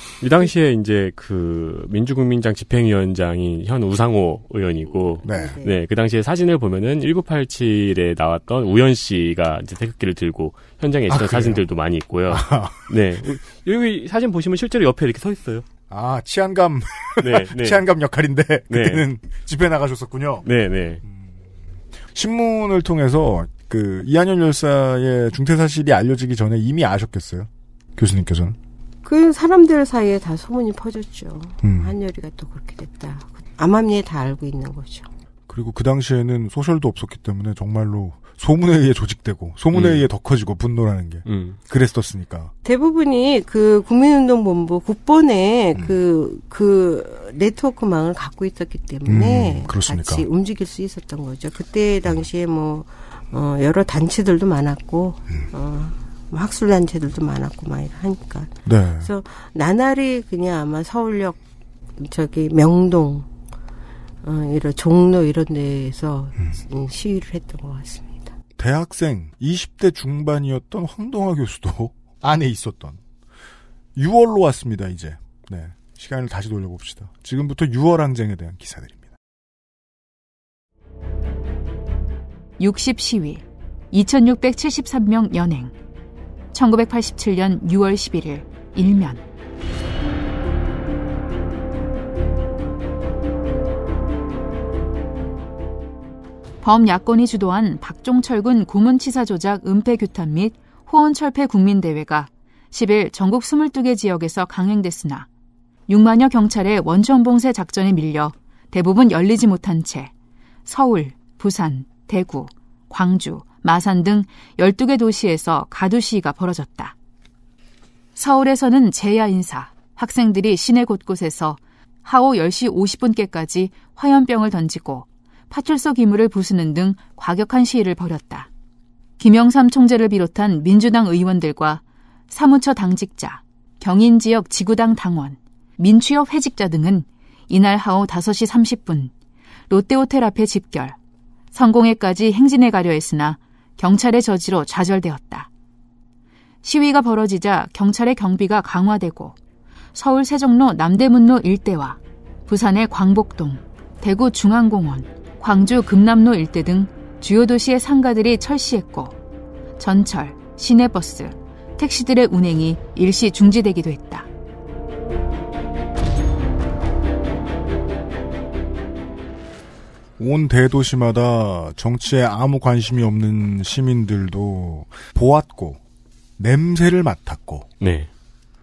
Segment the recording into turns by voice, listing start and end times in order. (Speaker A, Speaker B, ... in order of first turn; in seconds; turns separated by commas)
Speaker A: 0.2-15.7, Speaker B: 4.9-5.7, Speaker C: 5.2-5.6, Speaker C: 11.1-11.6, Speaker C: 12.3-12.9, Speaker C: 15.9-20.5, Speaker A: 17.2-17.8, Speaker A: 18.7-19.1, Speaker A: 20.4-21.0, Speaker C: 22.1-28.6, Speaker B: 29.0-35.1, Speaker C: 31.6-31.9, Speaker C: 35.5-42.5, Speaker A: 39.7-40.1, Speaker A: 41.3-41.6, Speaker B: 42.6-61.4, Speaker C: 49.1-50.3, Speaker C: 58.6-59.1, Speaker B: 62.0-63.3, Speaker B: 64.2-68.3, Speaker C: 68.6-73.0, Speaker C: 74.0-79.1, Speaker D: 82.6-85.7, Speaker D: 86.5-89.2, Speaker D: 96.6-105.3, Speaker D: 105.9-110.1, Speaker D: 110.7-116.9, Speaker D: 118.2-128.5, Speaker D: 129.2-139.1, Speaker D: 139.7-141.0, Speaker D: 141.5-145.5, Speaker D: 146.6-149.4, Speaker D: 149.9-159.1, Speaker D: 159.8-164.3, Speaker C: 170.2-175.8, Speaker C: 176.4-177.7, Speaker A: 177.8-178.1